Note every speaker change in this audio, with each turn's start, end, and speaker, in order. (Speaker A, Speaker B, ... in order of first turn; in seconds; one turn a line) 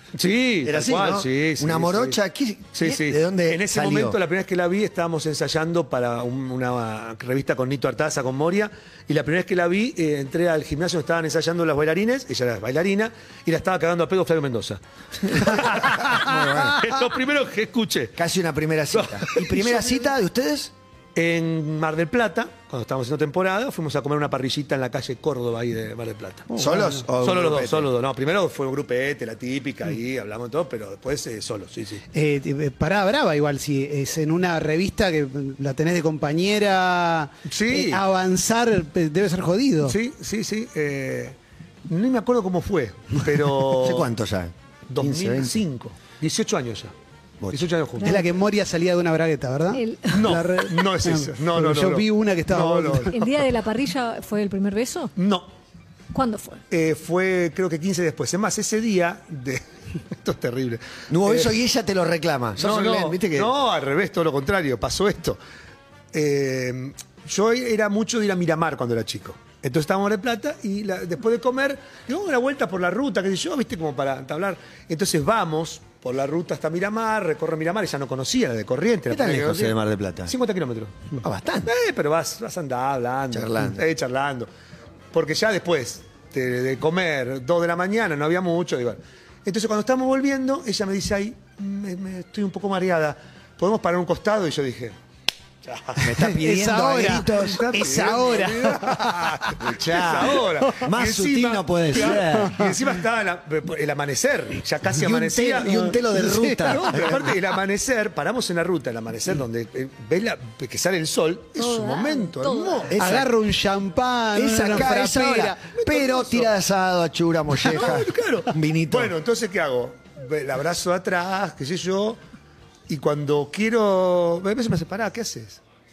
Speaker A: 0.1-2.2
Speaker B: 0.6-4.2
Speaker A: 2.8-18.2
Speaker B: 15.2-16.9
Speaker B: 18.2-20.7
Speaker A: 18.9-20.1
Speaker A: 21.2-26.6
Speaker C: 26.5-27.0
Speaker B: 26.5-27.9
Speaker A: 27.2-32.0
Speaker C: 32.1-40.0
Speaker A: 37.5-38.0
Speaker A: 39.9-41.4
Speaker A: 41.9-44.1
Speaker B: 43.7-45.5
Speaker A: 44.9-46.9
Speaker B: 47.4-47.7
Speaker A: 47.5-48.2
Speaker C: 48.0-53.1
Speaker D: 49.7-50.3
Speaker A: 50.1-53.3
Speaker D: 53.1-55.1
Speaker A: 55.2-55.5
Speaker D: 56.1-56.6
Speaker A: 56.7-61.6
Speaker B: 61.1-63.5
Speaker A: 62.6-65.4
Speaker A: 66.1-84.5
Speaker B: 79.1-80.3
Speaker B: 81.2-81.7
Speaker B: 83.3-83.8
Speaker A: 85.1-95.0
Speaker A: 95.6-96.1
Speaker B: 96.0-97.7
Speaker C: 96.0-99.5
Speaker A: 97.2-106.0
Speaker B: 99.6-102.7
Speaker B: 104.9-107.4
Speaker C: 106.1-106.8
Speaker A: 106.6-113.0
Speaker D: 111.6-112.9
Speaker B: 112.9-113.3
Speaker C: 113.0-115.7
Speaker B: 114.3-119.1
Speaker A: 115.7-116.5
Speaker A: 117.6-122.2
Speaker A: 122.9-125.6